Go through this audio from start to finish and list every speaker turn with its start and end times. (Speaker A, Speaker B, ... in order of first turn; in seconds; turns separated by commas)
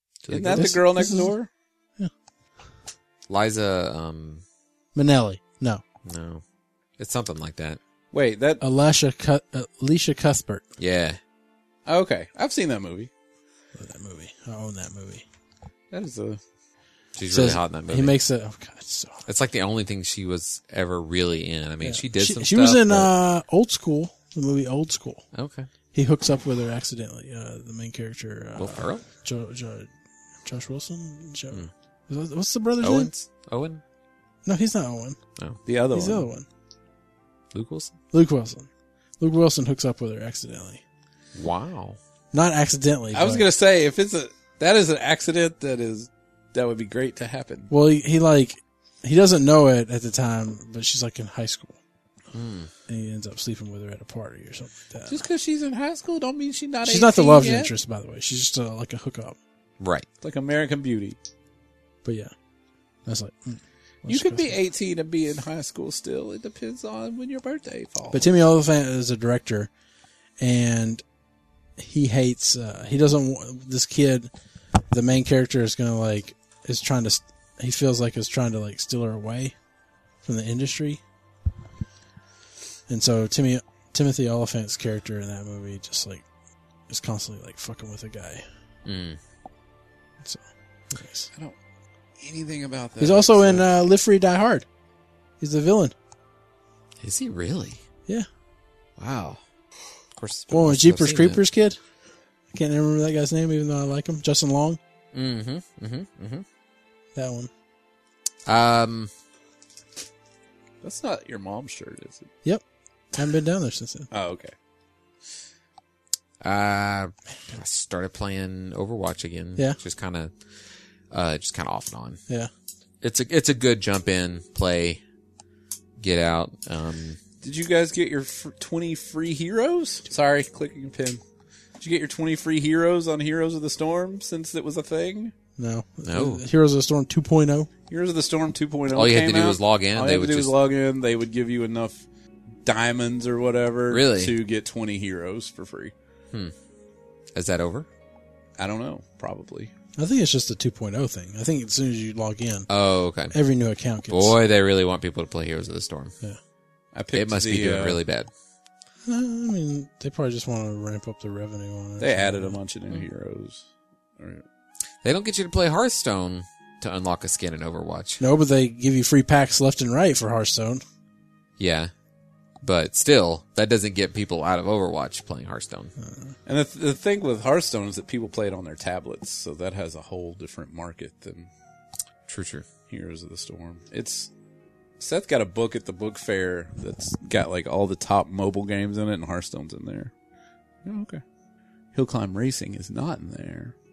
Speaker A: 0.2-0.7, Speaker B: 0.3-1.5, Speaker C: 0.5-1.3, Speaker A: 3.3-4.4, Speaker C: 5.0-5.8, Speaker A: 6.0-6.4, Speaker A: 7.0-7.8, Speaker B: 8.1-8.6, Speaker C: 8.6-10.6, Speaker A: 10.8-11.2, Speaker B: 11.9-13.1, Speaker C: 13.8-15.2, Speaker B: 15.9-16.4, Speaker A: 17.1-18.2, Speaker C: 17.3-19.2, Speaker A: 19.3-23.1, Speaker C: 21.8-25.2, Speaker A: 25.3-25.7, Speaker C: 25.9-29.9, Speaker A: 28.6-29.0, Speaker C: 30.4-33.1, Speaker A: 32.8-33.8, Speaker C: 34.5-35.2, Speaker B: 35.7-36.3, Speaker C: 35.9-36.5, Speaker A: 37.5-37.9, Speaker C: 38.1-38.7, Speaker C: 39.2-40.8, Speaker A: 41.4-42.0, Speaker C: 42.3-43.5, Speaker B: 43.1-47.7, Speaker C: 47.7-51.8, Speaker A: 52.3-52.7, Speaker C: 52.9-55.2, Speaker B: 55.1-57.7, Speaker C: 56.8-59.4, Speaker A: 59.8-60.1, Speaker B: 60.2-61.2, Speaker C: 62.0-62.3, Speaker C: 63.1-64.6, Speaker B: 64.1-68.3, Speaker C: 68.1-69.7, Speaker C: 70.4-71.0, Speaker C: 71.8-74.3, Speaker C: 74.9-79.5, Speaker C: 80.2-81.0, Speaker C: 82.9-86.3, Speaker C: 86.9-88.4, Speaker A: 88.8-89.2, Speaker C: 91.0-91.3, Speaker B: 92.2-93.7, Speaker C: 93.0-94.7, Speaker C: 95.4-95.9, Speaker A: 97.0-97.8, Speaker A: 99.0-99.4, Speaker A: 100.2-101.4, Speaker C: 100.5-101.8, Speaker C: 102.5-104.8, Speaker A: 105.1-106.5, Speaker C: 107.2-107.5, Speaker A: 108.5-109.1, Speaker B: 110.8-112.3, Speaker C: 113.1-114.1, Speaker B: 114.1-114.5, Speaker A: 116.4-120.3, Speaker A: 121.1-122.2, Speaker A: 123.0-125.0, Speaker A: 126.0-127.2, Speaker B: 127.4-131.2, Speaker B: 131.8-135.3, Speaker C: 135.6-137.7, Speaker A: 136.1-136.4, Speaker B: 137.9-142.1, Speaker A: 138.9-140.5, Speaker B: 142.6-145.9, Speaker A: 143.9-144.3, Speaker A: 147.3-147.9, Speaker B: 148.6-149.7, Speaker C: 150.0-152.7, Speaker A: 152.7-153.3, Speaker C: 153.3-154.3, Speaker A: 154.1-156.1, Speaker B: 156.9-158.0, Speaker A: 157.1-158.3, Speaker C: 159.1-162.6, Speaker B: 162.0-163.7, Speaker B: 164.2-164.4, Speaker A: 165.0-168.2, Speaker C: 168.2-170.8, Speaker A: 171.6-171.9, Speaker A: 172.6-175.9, Speaker C: 176.0-176.3, Speaker B: 176.5-181.5, Speaker A: 182.3-182.7, Speaker B: 182.9-184.3, Speaker B: 185.0-190.1, Speaker B: 190.8-191.2, Speaker B: 191.9-193.8